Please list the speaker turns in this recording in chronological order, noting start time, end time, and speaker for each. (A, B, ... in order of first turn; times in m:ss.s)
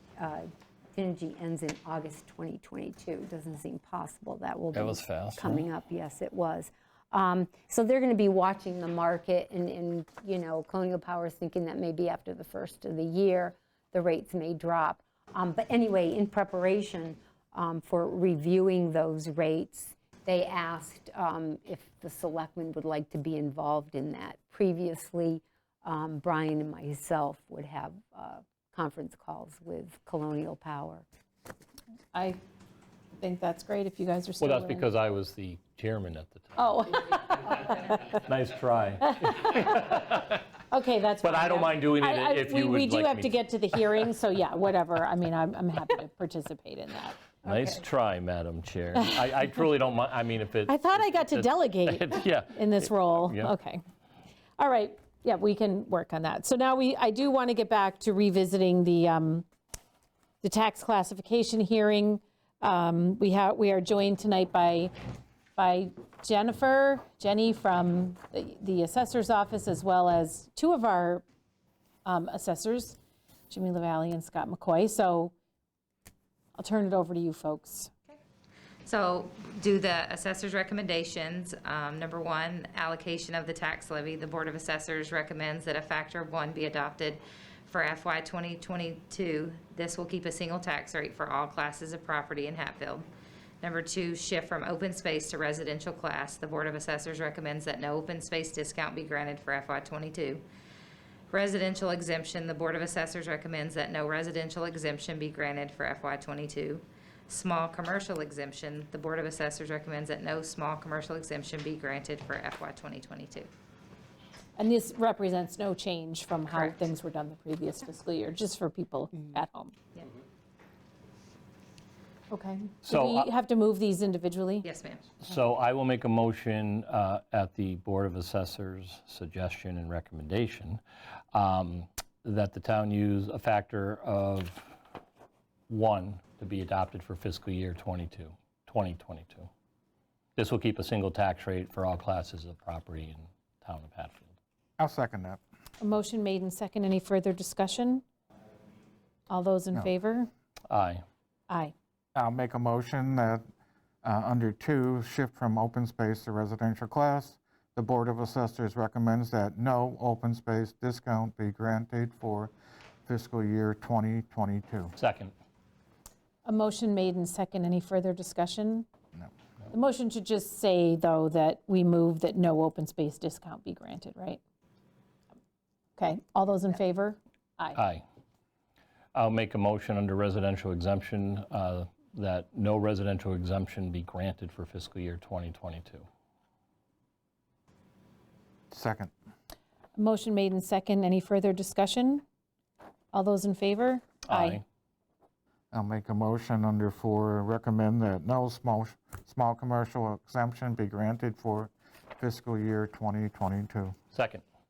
0:00.2-0:31.0 A
0:04.7-0:05.6 B
0:32.1-0:32.4 C
0:33.2-0:34.9 C
0:34.4-0:40.5 B
0:36.6-0:38.0 C
0:39.0-0:39.8 C
0:40.7-0:47.3 C
0:41.2-0:43.9 B
0:47.4-0:53.6 B
0:48.9-0:49.2 C
0:50.7-0:53.8 C
0:54.6-0:59.5 C
1:00.4-1:04.9 C
1:05.6-1:11.2 C
1:12.0-1:13.0 C
1:13.5-1:15.3 C
1:16.6-1:17.9 C
1:18.8-1:33.1 D
1:33.6-1:40.4 D
1:41.3-1:53.5 D
1:54.6-1:59.8 C
1:56.5-1:56.8 D
2:02.3-2:04.7 C
2:02.8-2:03.3 B
2:04.6-2:05.1 D
2:05.2-2:10.8 B
2:11.3-2:14.8 B
2:15.7-2:19.5 B
2:20.4-2:24.3 B
2:24.8-2:25.4 E
2:25.8-2:28.0 C
2:29.3-2:30.3 C
2:30.7-2:31.0 B
2:31.5-2:31.7 C
2:32.2-2:33.4 E
2:34.0-2:42.5 E
2:43.1-2:44.9 E
2:45.0-2:45.3 B
2:46.4-2:48.9 C
2:49.7-2:54.4 C
2:56.0-2:57.8 C
2:57.8-2:58.0 B
2:59.1-3:06.1 B
3:08.7-3:09.1 E
3:10.0-3:12.2 C
3:13.1-3:14.6 C
3:14.2-3:14.6 B
3:15.7-3:24.0 E
3:24.1-3:24.4 B